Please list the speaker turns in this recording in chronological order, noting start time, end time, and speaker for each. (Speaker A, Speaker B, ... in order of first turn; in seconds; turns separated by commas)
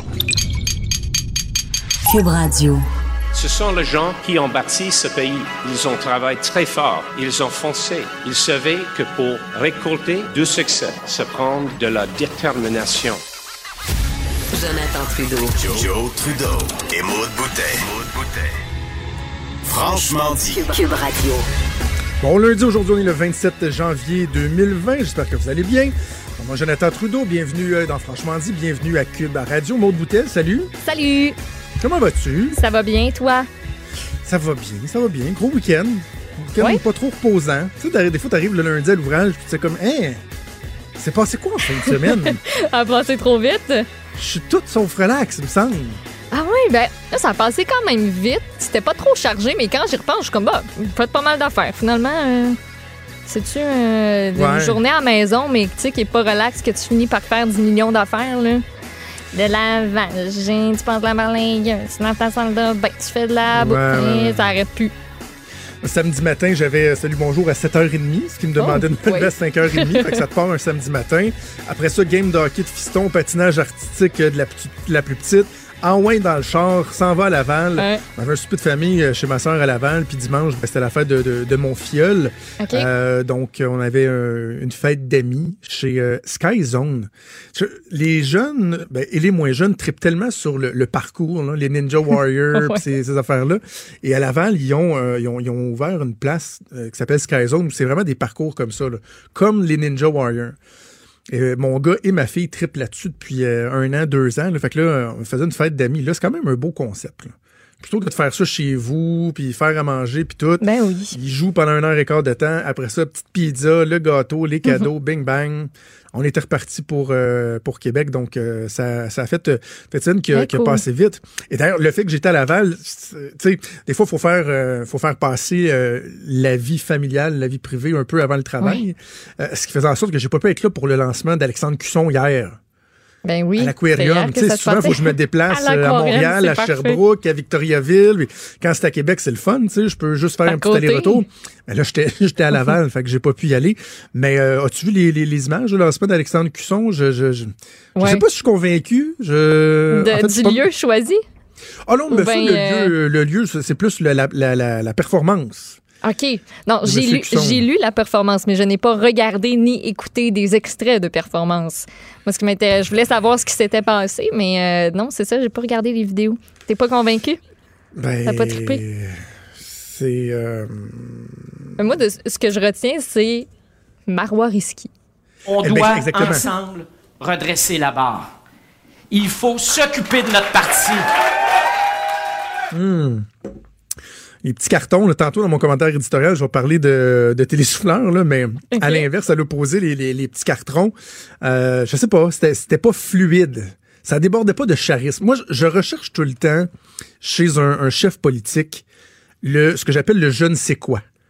Speaker A: 2.1-2.8, Speaker B: 3.3-13.2, Speaker A: 14.5-15.8, Speaker C: 15.6-18.4, Speaker C: 19.6-20.6, Speaker A: 20.4-21.4, Speaker D: 22.2-30.7, Speaker E: 30.8-31.4, Speaker D: 31.8-32.5, Speaker E: 32.5-33.5, Speaker D: 34.2-40.2, Speaker D: 41.0-42.4, Speaker E: 41.8-43.9, Speaker D: 44.2-46.0, Speaker E: 46.3-52.6, Speaker E: 53.3-58.6, Speaker D: 54.3-54.8, Speaker E: 59.3-64.9, Speaker D: 63.5-64.5, Speaker D: 65.8-100.5, Speaker E: 68.6-70.2, Speaker E: 77.8-78.0, Speaker E: 82.6-82.9, Speaker E: 92.5-92.8, Speaker D: 101.3-132.6, Speaker E: 110.6-111.1, Speaker E: 120.3-120.8, Speaker E: 133.2-137.0, Speaker D: 133.6-150.7, Speaker E: 140.4-141.2, Speaker E: 148.0-148.2, Speaker E: 149.9-151.2, Speaker D: 151.8-155.8, Speaker E: 152.1-152.9, Speaker E: 156.0-167.4, Speaker D: 156.8-157.6, Speaker D: 167.9-171.5, Speaker E: 168.2-168.8, Speaker E: 171.8-173.5, Speaker E: 174.1-174.9, Speaker F: 175.5-178.2, Speaker D: 175.6-176.4, Speaker F: 179.1-181.1, Speaker D: 182.7-183.2, Speaker D: 184.4-196.7, Speaker E: 188.7-189.0, Speaker D: 197.2-198.8, Speaker D: 199.4-201.0